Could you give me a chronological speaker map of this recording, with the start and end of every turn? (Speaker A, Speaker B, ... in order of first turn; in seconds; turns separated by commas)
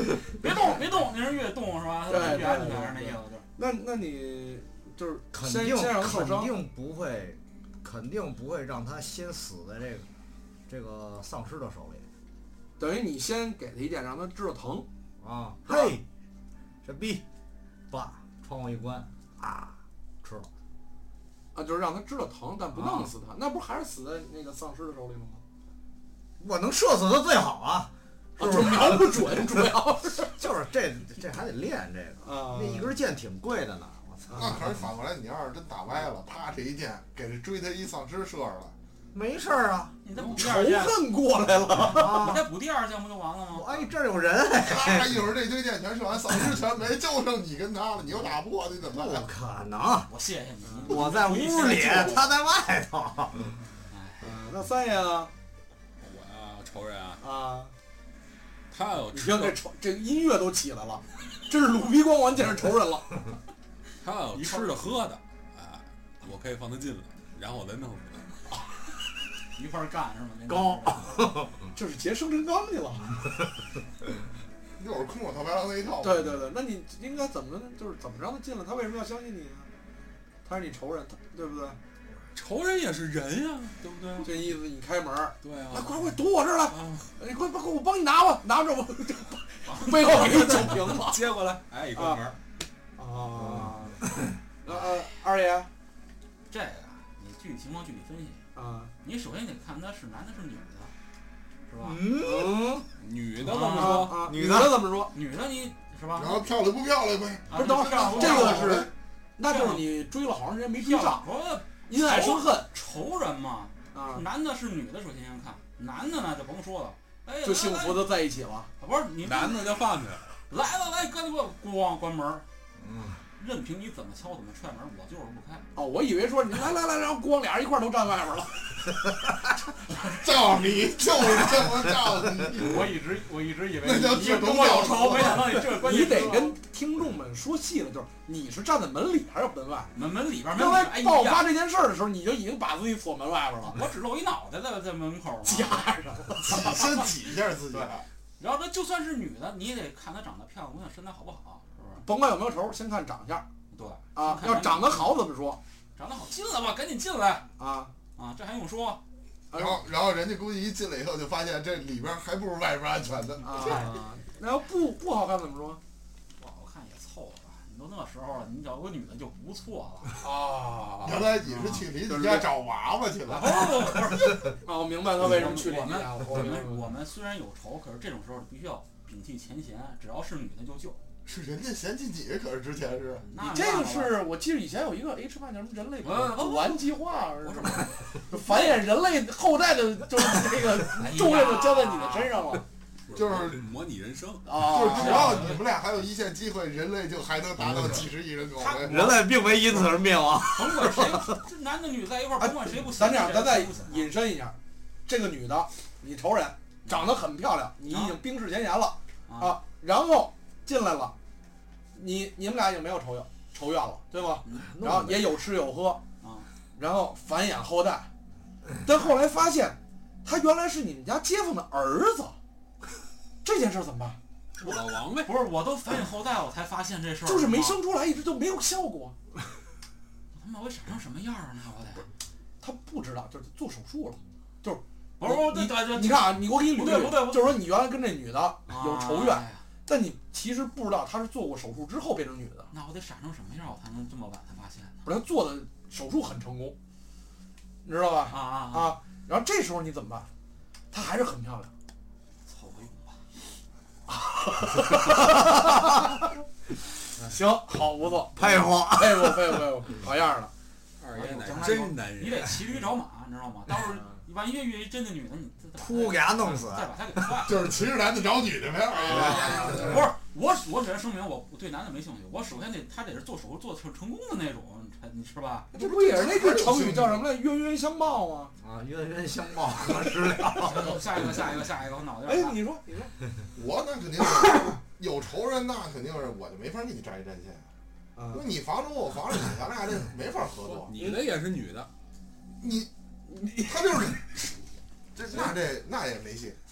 Speaker A: 0.3-3.5, Speaker B: 0.5-0.8, Speaker B: 2.1-6.5, Speaker C: 5.3-10.1, Speaker C: 10.7-12.1, Speaker B: 12.8-14.9, Speaker C: 15.2-16.0, Speaker B: 15.7-16.0, Speaker C: 16.8-17.2, Speaker C: 17.9-20.5, Speaker B: 21.6-25.4, Speaker C: 22.8-23.1, Speaker C: 26.4-29.7, Speaker B: 28.4-30.4, Speaker C: 30.4-34.9, Speaker B: 32.2-32.9, Speaker B: 34.3-34.5, Speaker D: 34.4-38.7, Speaker C: 39.1-40.0, Speaker A: 40.0-41.0, Speaker B: 40.2-42.4, Speaker A: 41.8-43.9, Speaker C: 41.8-42.5, Speaker C: 43.5-45.2, Speaker D: 44.6-49.3, Speaker C: 48.9-50.1, Speaker A: 50.1-52.2, Speaker B: 50.7-51.0, Speaker C: 50.9-53.6, Speaker A: 53.9-54.4, Speaker B: 54.2-55.3, Speaker E: 56.0-57.2, Speaker B: 57.2-57.7, Speaker E: 58.7-59.6, Speaker B: 59.1-63.2, Speaker E: 64.0-68.4, Speaker A: 69.5-71.3, Speaker C: 70.5-71.5, Speaker B: 71.7-73.1, Speaker D: 74.8-76.2, Speaker B: 76.0-79.7, Speaker B: 80.5-81.8, Speaker E: 82.3-84.3, Speaker B: 84.2-91.3, Speaker E: 85.4-86.2, Speaker E: 86.7-87.1, Speaker A: 89.7-90.8, Speaker E: 90.0-92.4, Speaker B: 92.0-92.2, Speaker B: 93.0-94.0, Speaker B: 94.6-95.7, Speaker A: 96.5-98.4, Speaker B: 98.5-98.9, Speaker A: 99.0-100.9, Speaker A: 101.7-102.0, Speaker C: 101.8-102.7, Speaker B: 102.2-102.9, Speaker E: 103.0-104.2, Speaker A: 103.4-104.3, Speaker B: 103.7-105.1, Speaker C: 104.3-104.9, Speaker A: 105.1-106.4, Speaker D: 106.2-108.9, Speaker A: 107.5-108.9, Speaker B: 107.5-111.2, Speaker A: 109.4-109.9, Speaker A: 110.8-118.1, Speaker B: 111.9-112.7, Speaker B: 113.9-114.2, Speaker B: 117.4-118.7, Speaker A: 118.8-119.8, Speaker E: 119.2-120.4, Speaker A: 120.5-122.4, Speaker C: 122.8-123.2, Speaker A: 123.4-125.7, Speaker B: 125.8-128.9, Speaker D: 130.1-133.0, Speaker A: 132.6-136.6, Speaker D: 133.8-135.7, Speaker B: 135.3-139.9, Speaker A: 139.9-141.5, Speaker B: 140.5-143.8, Speaker A: 143.7-145.9, Speaker B: 145.4-146.8, Speaker D: 146.5-148.1, Speaker A: 146.6-147.0, Speaker A: 147.7-152.0, Speaker B: 152.0-153.5, Speaker A: 153.7-155.2, Speaker B: 154.1-155.6, Speaker A: 156.0-157.5, Speaker B: 157.6-157.9, Speaker A: 158.2-159.0, Speaker B: 159.5-159.8, Speaker D: 159.6-163.9, Speaker B: 163.4-165.8, Speaker A: 163.6-163.9, Speaker A: 166.4-170.2, Speaker B: 170.2-171.3, Speaker D: 171.0-173.9, Speaker A: 171.4-171.9, Speaker B: 172.0-172.5, Speaker A: 173.3-174.6, Speaker B: 174.6-176.8, Speaker A: 175.2-181.0, Speaker D: 181.2-183.3, Speaker A: 183.2-184.2, Speaker B: 183.4-192.6, Speaker A: 186.0-188.8, Speaker A: 190.9-192.3, Speaker E: 193.1-194.5, Speaker D: 193.2-193.6, Speaker B: 194.4-195.4, Speaker D: 194.7-199.1, Speaker A: 194.7-195.7, Speaker C: 197.7-198.0, Speaker A: 198.6-199.2, Speaker C: 198.9-201.4, Speaker A: 200.5-204.1, Speaker B: 202.4-204.6, Speaker B: 205.1-211.1, Speaker A: 206.8-207.1, Speaker A: 207.9-208.2, Speaker A: 209.3-209.6, Speaker B: 211.9-216.0, Speaker A: 214.4-214.7, Speaker C: 214.6-215.3, Speaker A: 216.2-216.5, Speaker B: 216.8-218.1, Speaker B: 218.8-222.4, Speaker B: 223.4-224.2, Speaker A: 224.6-227.8, Speaker E: 224.6-225.3, Speaker B: 227.2-229.2, Speaker A: 230.3-232.1, Speaker B: 232.6-242.7, Speaker A: 235.2-237.6, Speaker A: 238.7-239.6, Speaker A: 242.7-245.0, Speaker B: 245.0-246.8, Speaker B: 247.8-250.3, Speaker A: 248.3-249.0, Speaker B: 250.9-251.7, Speaker A: 252.5-253.2, Speaker B: 254.1-256.2, Speaker B: 257.2-260.5, Speaker C: 258.4-259.6, Speaker E: 261.0-262.6, Speaker A: 261.1-267.7, Speaker C: 265.8-267.5, Speaker D: 267.4-270.1, Speaker A: 268.9-275.7, Speaker C: 269.1-269.6, Speaker B: 275.7-278.5, Speaker D: 275.7-277.2, Speaker C: 278.6-281.2, Speaker A: 280.6-282.6, Speaker B: 280.6-281.0, Speaker B: 282.3-283.2, Speaker D: 283.6-287.7, Speaker B: 288.2-288.4, Speaker D: 288.3-290.9, Speaker E: 290.6-291.9, Speaker D: 292.6-292.9, Speaker D: 293.6-294.5, Speaker D: 295.1-296.6